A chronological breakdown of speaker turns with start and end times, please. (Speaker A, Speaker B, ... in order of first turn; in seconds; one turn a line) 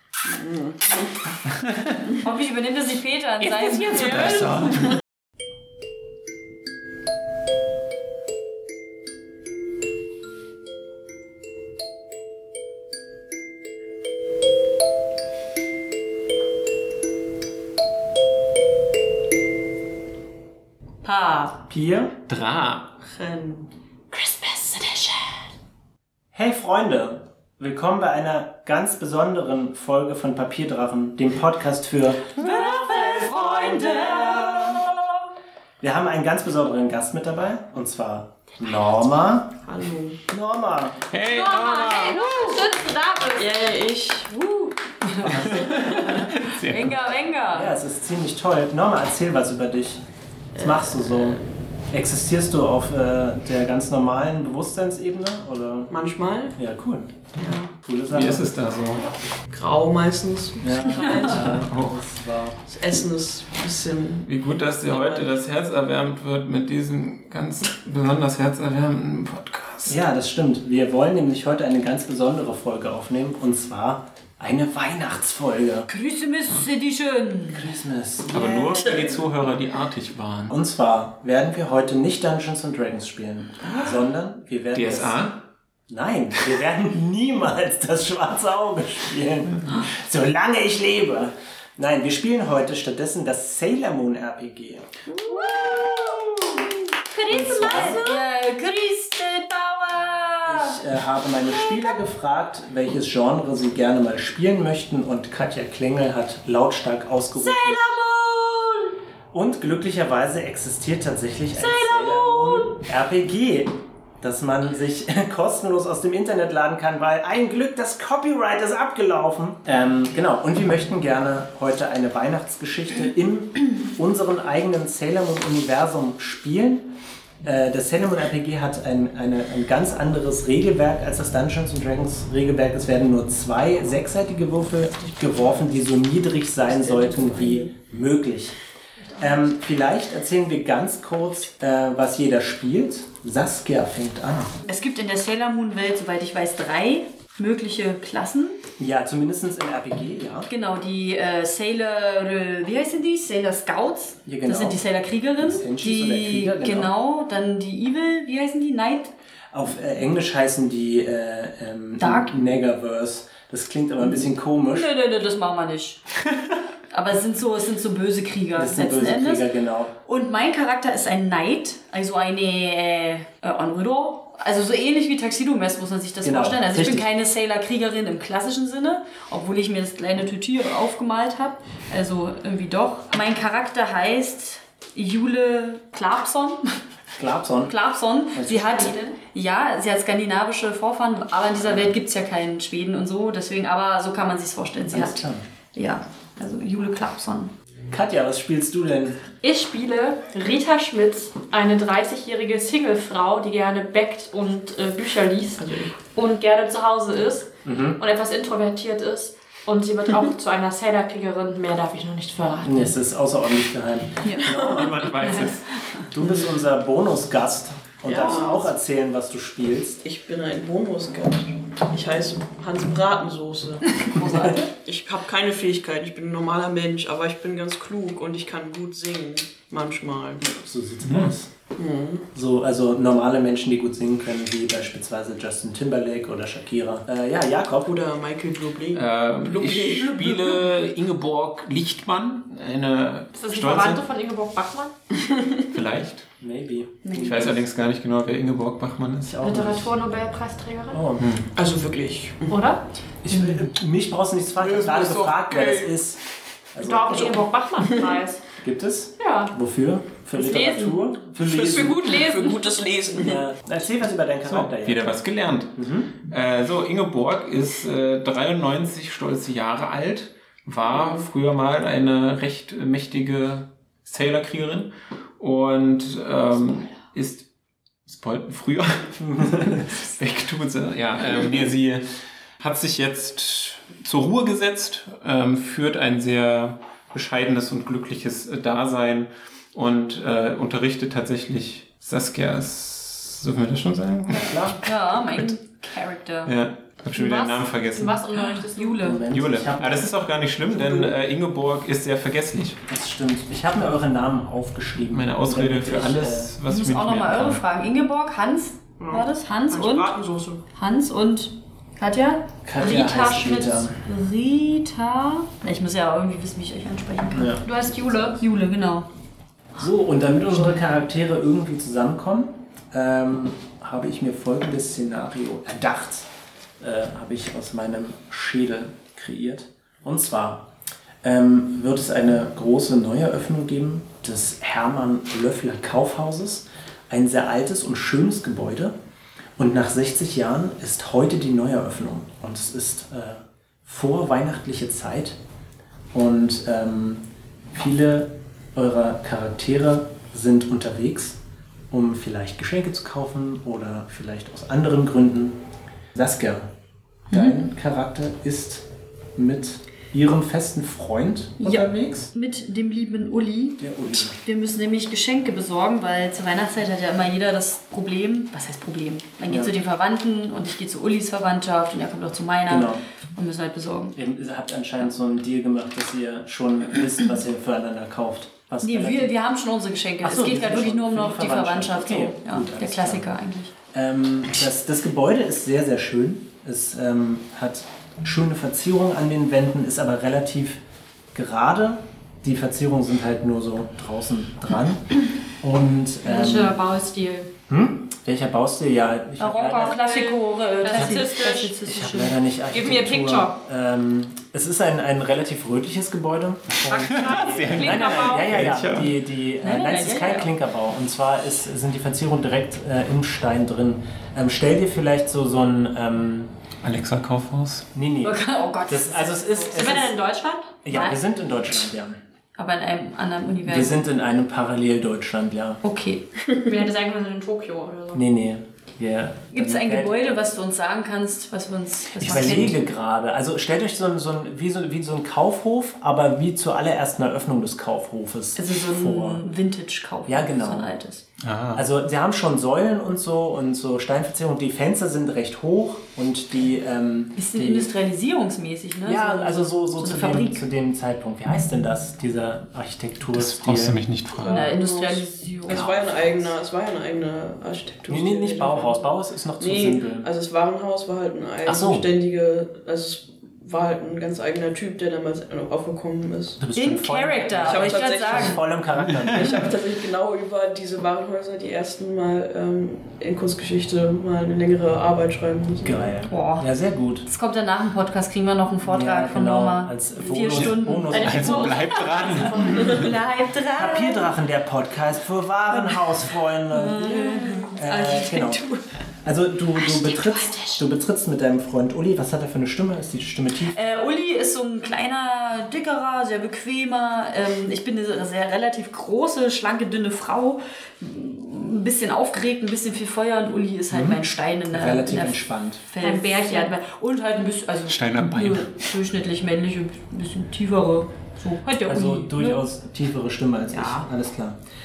Speaker A: 0.2-1.3
Speaker B: 1.4-2.0
Speaker C: 2.2-4.3
Speaker B: 3.4-5.0
Speaker A: 4.2-5.0
Speaker C: 21.0-21.6
Speaker D: 21.7-22.2
Speaker B: 22.3-22.9
Speaker A: 23.0-23.7
Speaker C: 24.4-24.6
Speaker D: 26.3-35.2
Speaker C: 32.4-34.8
Speaker D: 35.8-39.6
Speaker A: 39.6-40.2
Speaker D: 40.2-41.1
Speaker B: 41.1-42.6
Speaker E: 41.3-43.6
Speaker C: 42.1-42.6
Speaker A: 43.4-44.7
Speaker C: 45.0-47.7
Speaker D: 45.2-45.9
Speaker B: 45.3-47.0
Speaker D: 47.5-50.0
Speaker D: 50.5-55.9
Speaker A: 50.5-51.4
Speaker A: 55.9-56.5
Speaker D: 56.5-58.8
Speaker A: 57.4-57.7
Speaker B: 58.1-59.0
Speaker A: 59.5-61.4
Speaker D: 60.6-62.6
Speaker B: 61.3-62.0
Speaker A: 62.7-64.3
Speaker B: 64.2-70.0
Speaker A: 64.9-65.4
Speaker D: 69.9-75.9
Speaker C: 75.9-77.7
Speaker D: 77.5-79.1
Speaker B: 78.3-80.5
Speaker D: 80.5-94.9
Speaker B: 84.7-85.4
Speaker C: 95.1-96.4
Speaker E: 97.1-98.2
Speaker D: 97.3-98.0
Speaker C: 97.3-100.8
Speaker D: 100.4-107.9
Speaker C: 107.3-108.9
Speaker D: 109.3-138.6
Speaker C: 111.5-112.7
Speaker A: 136.6-137.7
Speaker D: 139.2-144.5
Speaker C: 144.6-148.6
Speaker D: 148.8-150.5
Speaker C: 150.5-159.1
Speaker D: 154.2-154.8
Speaker D: 155.4-156.9
Speaker D: 159.5-164.9
Speaker C: 162.0-162.4
Speaker C: 164.7-166.0
Speaker C: 166.9-169.5
Speaker D: 168.5-169.9
Speaker C: 170.0-186.8
Speaker D: 176.2-177.1
Speaker D: 187.2-187.8
Speaker C: 187.7-195.2
Speaker D: 188.3-189.0
Speaker E: 188.8-189.2
Speaker D: 191.6-191.9
Speaker D: 194.9-195.4
Speaker C: 195.7-197.5
Speaker D: 197.9-199.2
Speaker E: 199.4-212.9
Speaker A: 205.6-205.9
Speaker D: 207.6-208.0
Speaker D: 212.6-215.1
Speaker A: 214.4-214.9
Speaker B: 214.6-215.7
Speaker D: 216.1-220.0
Speaker A: 218.0-218.7
Speaker A: 220.0-230.4
Speaker C: 224.0-224.7
Speaker D: 230.4-231.5
Speaker B: 231.1-231.3
Speaker A: 231.8-232.3
Speaker D: 232.3-237.9
Speaker A: 237.8-240.7
Speaker B: 238.9-244.0
Speaker E: 243.3-244.9
Speaker A: 245.2-245.6
Speaker B: 245.7-246.3
Speaker D: 246.4-247.5
Speaker C: 247.0-247.5
Speaker B: 247.2-249.4
Speaker D: 249.2-249.9
Speaker E: 249.4-251.0
Speaker D: 250.9-251.3
Speaker B: 251.2-251.5
Speaker A: 251.6-252.7
Speaker E: 252.5-252.8
Speaker D: 253.2-256.2
Speaker A: 254.6-255.9
Speaker D: 256.7-257.5
Speaker E: 256.8-258.4
Speaker D: 258.6-262.1
Speaker E: 259.2-259.5
Speaker E: 260.3-261.0
Speaker A: 261.4-263.5
Speaker E: 262.0-262.9
Speaker D: 263.2-265.1
Speaker B: 264.4-277.4
Speaker D: 265.7-266.1
Speaker B: 278.1-282.1
Speaker D: 279.2-279.9
Speaker B: 282.6-295.5
Speaker D: 294.3-294.8
Speaker C: 294.8-296.5
Speaker B: 296.4-298.2
Speaker E: 297.1-299.1
Speaker C: 298.3-299.2
Speaker D: 299.0-300.1
Speaker B: 299.3-302.8
Speaker D: 300.7-301.1
Speaker D: 302.9-306.5
Speaker B: 305.1-307.6
Speaker C: 306.7-310.1
Speaker A: 309.0-310.6
Speaker C: 310.7-312.5
Speaker D: 312.6-314.0
Speaker E: 312.8-313.9
Speaker C: 314.1-319.1
Speaker D: 317.3-318.4
Speaker E: 317.6-318.3
Speaker D: 319.8-326.3
Speaker D: 326.8-330.7
Speaker D: 331.2-338.9
Speaker D: 339.6-345.4
Speaker D: 346.1-351.4
Speaker D: 351.9-355.6
Speaker D: 356.1-356.7
Speaker D: 357.3-362.3
Speaker C: 357.3-357.6
Speaker C: 361.6-374.2
Speaker D: 363.8-364.4
Speaker D: 369.5-369.7
Speaker D: 372.7-373.0
Speaker D: 374.1-379.3
Speaker C: 378.8-383.7
Speaker D: 380.2-383.3
Speaker D: 383.9-390.8
Speaker D: 391.3-396.8
Speaker E: 396.2-397.5
Speaker D: 397.7-400.0
Speaker C: 399.4-402.4
Speaker E: 399.9-401.8
Speaker D: 400.9-416.5
Speaker E: 402.7-403.6
Speaker E: 406.9-408.6
Speaker B: 406.9-409.2
Speaker C: 409.6-410.5
Speaker B: 416.8-417.9
Speaker D: 417.9-420.2
Speaker C: 418.2-420.0
Speaker E: 419.7-420.7
Speaker D: 420.8-422.2
Speaker C: 420.9-421.2
Speaker C: 422.6-424.1
Speaker D: 423.6-425.8
Speaker C: 425.8-426.2
Speaker E: 426.6-428.2
Speaker D: 428.1-430.4
Speaker C: 429.5-432.8
Speaker D: 432.2-439.4
Speaker C: 438.5-441.2
Speaker D: 440.2-440.9
Speaker B: 441.4-441.8
Speaker D: 441.7-447.9
Speaker C: 447.4-450.6
Speaker D: 449.0-454.0
Speaker B: 453.3-454.7
Speaker A: 454.4-466.6
Speaker C: 454.4-455.9
Speaker D: 455.7-456.5
Speaker D: 458.1-460.3
Speaker D: 461.6-462.1
Speaker D: 466.6-469.7
Speaker C: 466.7-468.6
Speaker A: 467.5-468.6
Speaker A: 469.2-476.1
Speaker D: 475.8-477.3
Speaker C: 476.3-476.7
Speaker C: 477.2-481.3
Speaker D: 478.8-481.8
Speaker B: 480.6-483.1
Speaker E: 481.1-483.1
Speaker C: 482.7-484.2
Speaker D: 483.7-488.6
Speaker C: 486.7-488.8
Speaker D: 489.2-493.8
Speaker C: 489.8-490.8
Speaker C: 493.7-512.6
Speaker D: 503.9-505.8
Speaker E: 506.0-506.8
Speaker B: 507.9-508.7
Speaker D: 511.8-514.6
Speaker C: 513.7-514.1